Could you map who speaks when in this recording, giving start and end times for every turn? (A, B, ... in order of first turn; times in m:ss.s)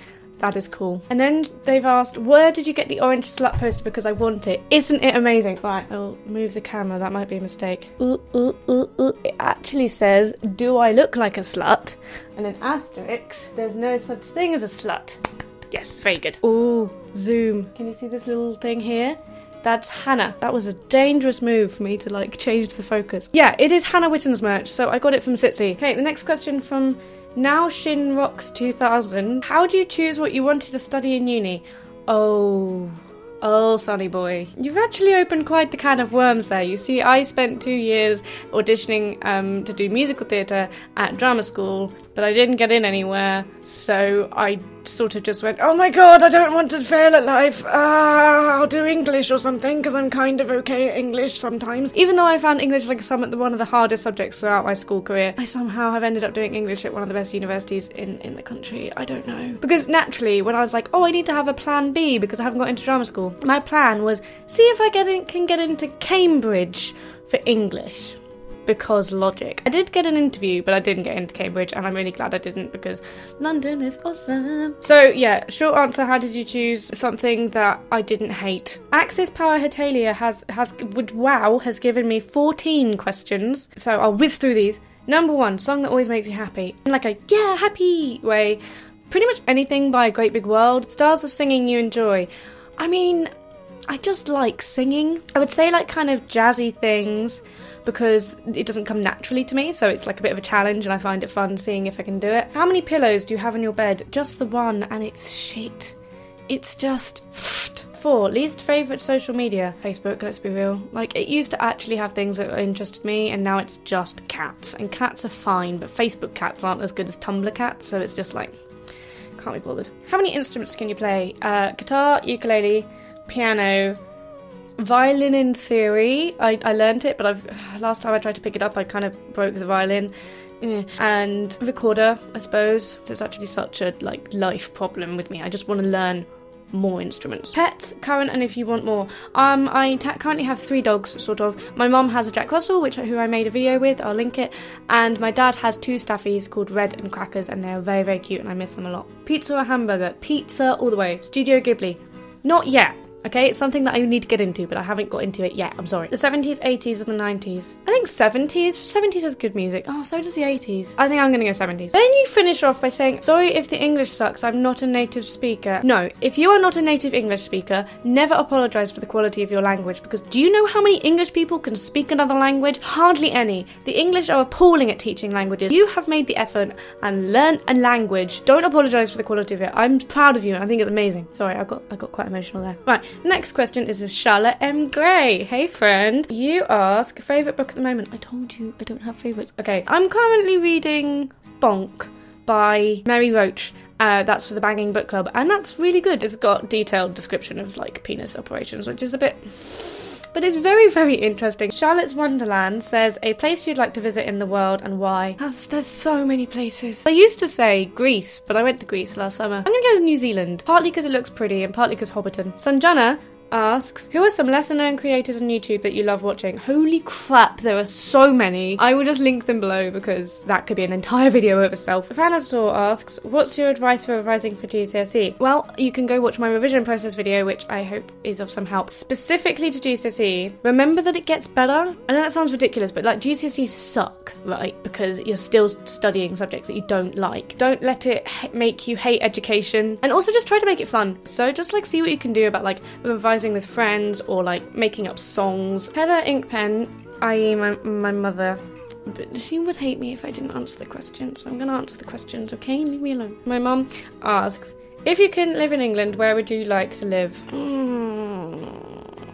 0:00.4-1:33.3 A
1:33.9-1:46.0 A
1:46.5-1:58.5 A
1:59.4-2:04.0 A
2:04.8-4:19.2 A